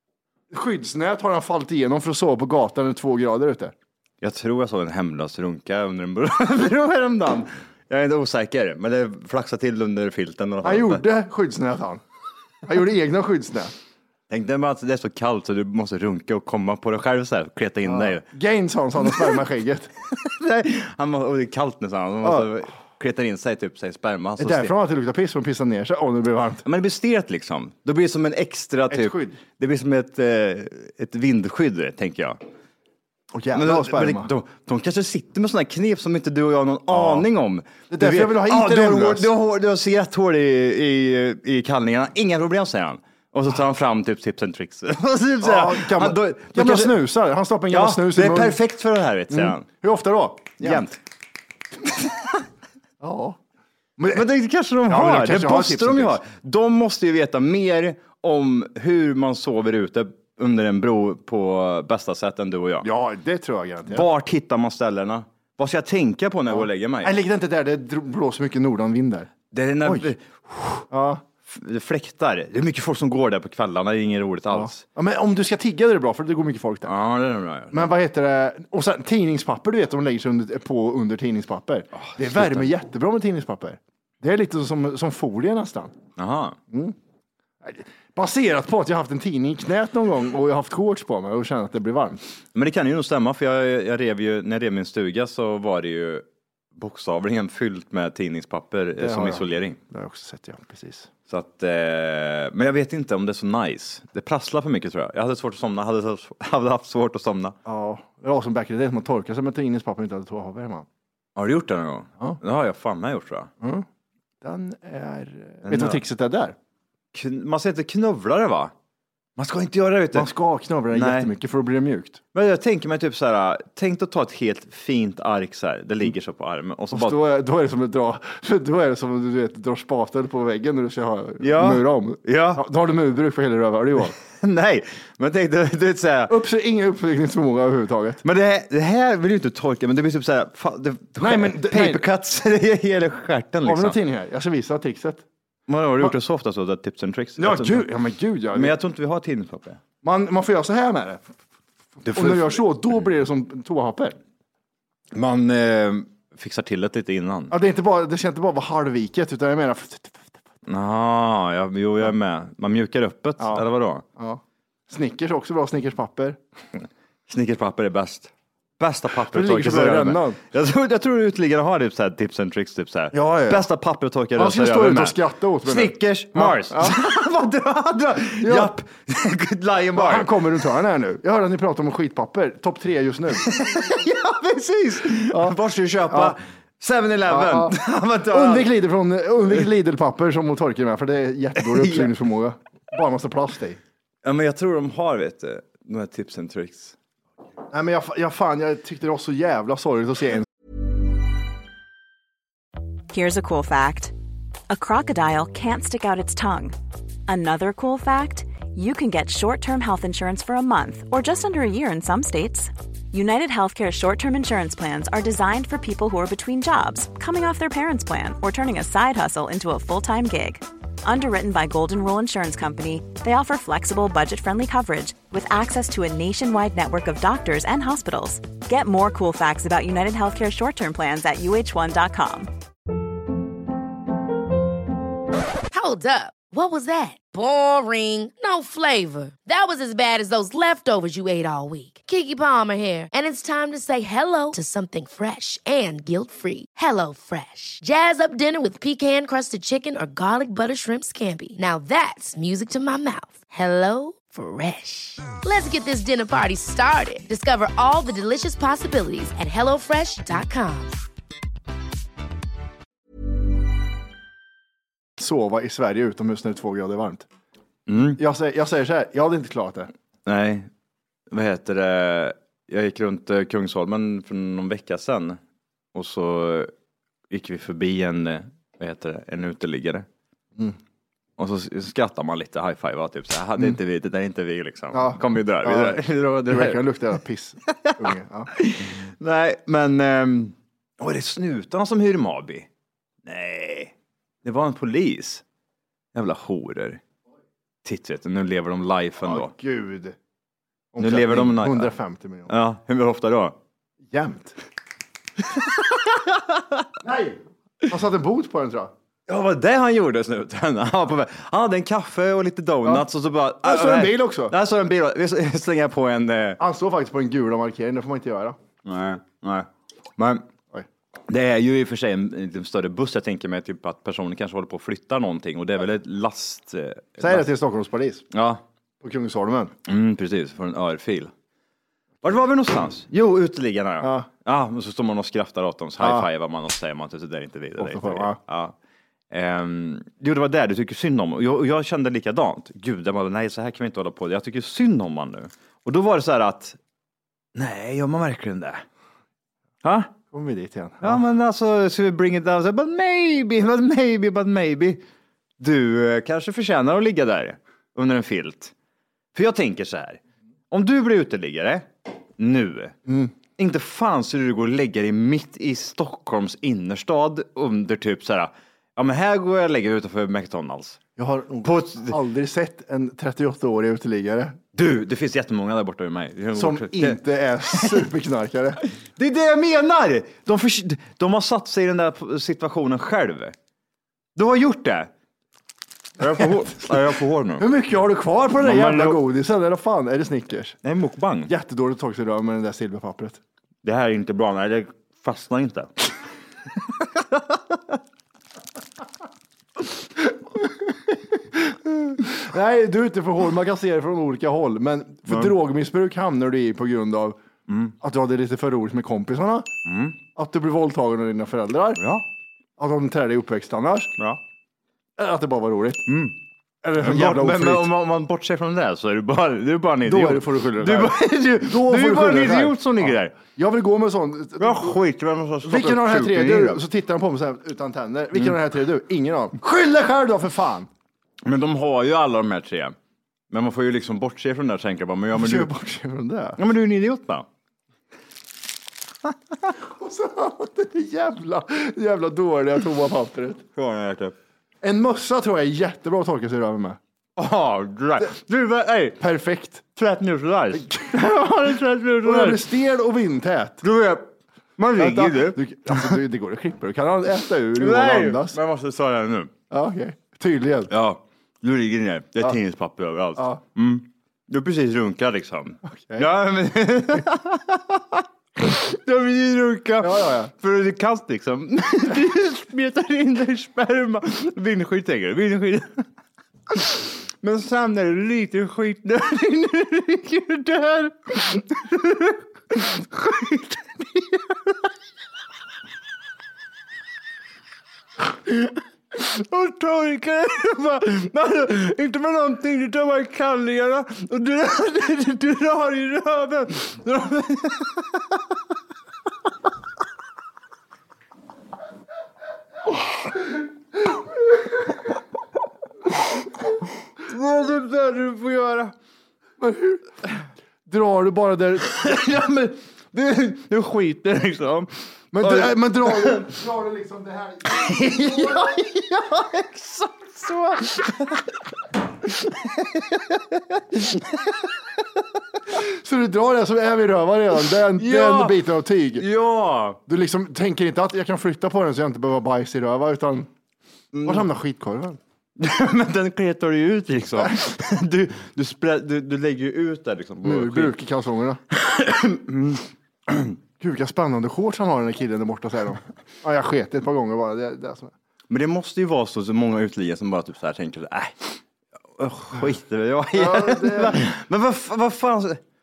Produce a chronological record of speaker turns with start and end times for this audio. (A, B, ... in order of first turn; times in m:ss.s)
0:00.5-0:03.7 A
0:04.2-0:11.0 B
0:10.6-0:12.0 A
0:12.6-0:13.7 A
0:14.3-0:18.3 B
0:17.8-0:19.9 A
0:20.1-0:24.7 B
0:22.2-0:22.5 A
0:24.4-0:26.6 A
0:26.6-0:32.4 B
0:28.9-0:29.4 A
0:33.3-0:34.3 A
0:33.5-0:47.0 B
0:36.9-0:37.3 A
0:37.9-0:39.3 A
0:45.4-0:48.6 A
0:47.7-0:49.7 B
0:49.3-0:50.9 A
0:50.6-0:51.0 B
0:51.9-0:52.4 B
0:53.0-0:53.4 A
0:54.0-0:54.2 A
0:54.1-1:02.9 B
0:54.9-0:56.2 A
1:02.8-1:04.1 A
1:03.9-1:07.1 B
1:06.5-1:09.3 A
1:09.5-1:10.9 B
1:09.8-1:10.1 A
1:10.9-1:11.2 A
1:11.5-1:14.8 B
1:14.5-1:16.9 A
1:16.8-1:17.9 B
1:17.7-1:26.0 A
1:22.0-1:22.7 B
1:26.2-1:26.6 B
1:26.7-1:27.0 A
1:27.6-1:32.2 A
1:32.6-1:36.2 B
1:36.8-1:39.8 B
1:39.0-1:41.1 A
1:41.3-1:47.6 B
1:47.6-1:50.9 A
1:51.4-1:53.5 B
1:53.6-1:53.9 A
1:54.4-1:56.6 A
1:55.7-1:56.0 B
1:57.1-1:58.7 B
1:59.4-2:00.3 B
2:00.1-2:02.2 A
2:00.9-2:01.3 B
2:02.3-2:07.2 B
2:06.9-2:14.2 A
2:11.4-2:12.6 B
2:14.4-2:16.4 B
2:16.3-2:18.2 A
2:18.2-2:24.0 B
2:21.2-2:22.0 A
2:23.6-2:25.3 A
2:25.7-2:27.9 B
2:27.4-2:28.8 A
2:28.5-2:29.8 B
2:30.0-2:31.2 A
2:32.0-2:32.6 B
2:32.1-2:34.2 A
2:35.1-2:37.5 B
2:37.5-2:40.4 A
2:40.7-2:44.0 B
2:43.4-2:43.6 A
2:44.2-2:46.4 A
2:47.3-3:00.4 B
2:49.3-2:50.4 A
2:53.1-2:53.7 A
2:54.4-2:57.0 A
2:58.4-2:58.7 A
2:59.9-3:03.5 A
3:03.4-3:08.7 B
3:05.3-3:05.6 A
3:06.1-3:06.4 A
3:07.3-3:13.8 A
3:11.7-3:12.1 B
3:14.2-3:17.0 B
3:17.7-3:20.5 A
3:23.1-3:24.1 C
3:24.7-3:26.8 C
3:27.3-3:52.5 C
3:55.7-4:21.0 D
4:25.2-4:27.3 A
4:27.9-4:28.2 B
4:28.2-4:29.9 A
4:30.3-4:30.7 B
4:31.3-4:35.4 B
4:35.9-4:36.7 B
4:37.3-4:40.1 B
4:41.4-4:46.8 B
4:44.9-4:48.5 A
4:48.5-4:52.7 B
4:53.3-4:53.9 B
4:54.4-4:55.4 B
4:56.1-4:57.0 B
4:57.8-4:59.5 B
4:59.2-5:00.2 A
5:00.9-5:02.6 A
5:01.0-5:01.9 B
5:02.5-5:03.6 B
5:04.1-5:04.6 A
5:05.6-5:06.8 B
5:07.0-5:08.9 A
5:09.3-5:16.6 B
5:13.6-5:14.6 A
5:16.6-5:18.6 A
5:18.8-5:20.4 B
5:21.3-5:27.5 B
5:27.2-5:28.2 A
5:28.3-5:28.6 B
5:29.0-5:29.7 A
5:29.9-5:31.3 B
5:32.2-5:38.7 B
5:34.0-5:34.3 A
5:36.0-5:36.3 A
5:37.8-5:38.4 A
5:39.3-5:46.8 B
5:47.6-5:48.8 B
5:49.8-5:50.1 B
5:50.3-5:51.2 A
5:51.0-5:55.0 B
5:55.6-5:58.7 B
5:59.3-6:00.2 B
6:00.7-6:03.0 B
6:03.1-6:03.3 A
6:03.6-6:11.0 B
6:11.2-6:14.6 A
6:11.6-6:12.2 B
6:14.7-6:17.2 B
6:16.5-6:18.8 A
6:17.7-6:18.1 B
6:19.2-6:23.5 B
6:24.4-6:25.1 B
6:26.2-6:27.7 B
6:27.6-6:30.8 A
6:28.6-6:29.2 B
6:30.8-6:31.5 B
6:31.5-6:33.4 A
6:33.8-6:36.1 B
6:41.5-6:47.4 A
6:45.3-6:45.6 B
6:47.7-6:47.9 B
6:48.0-6:49.7 A
6:49.9-6:50.2 B
6:50.4-6:52.0 A
6:52.0-6:52.2 B
6:52.8-6:54.1 A
6:55.2-6:56.1 A
6:56.1-6:56.4 B
6:56.8-6:57.9 A
6:57.0-7:03.4 B
7:00.0-7:05.0 A
7:04.6-7:06.8 B
7:05.6-7:10.9 A
7:11.4-7:13.0 B
7:13.5-7:15.7 B
7:15.3-7:16.6 A
7:16.6-7:17.5 B
7:19.8-7:23.6 A
7:23.8-7:24.3 B
7:24.8-7:27.0 A
7:27.4-7:29.2 B
7:29.2-7:29.9 A
7:30.0-7:32.6 B
7:30.7-7:31.4 A
7:32.2-7:33.8 A
7:33.8-7:36.2 B
7:35.0-7:38.6 A
7:37.8-7:39.5 B
7:39.7-7:40.9 A
7:40.9-7:56.0 B
7:45.9-7:46.3 A
7:50.0-7:50.5 A
7:56.7-8:04.8 B
8:08.4-8:18.4 B
8:27.2-8:28.9 B
8:29.6-8:30.1 A
8:30.9-8:32.1 A
8:31.9-8:36.5 B
8:35.3-8:38.7 A
8:37.7-8:41.5 B
8:42.2-8:44.7 B
8:45.7-8:49.3 A
8:47.9-8:48.6 B
8:49.2-8:50.0 B
8:50.1-8:53.5 A
8:54.1-8:54.5 B
8:54.2-8:55.2 A
8:55.6-9:00.9 B
9:00.4-9:01.6 A
9:01.7-9:03.5 B
9:03.8-9:08.1 A
9:08.5-9:11.6 B
9:12.2-9:15.6 B
9:13.3-9:14.3 A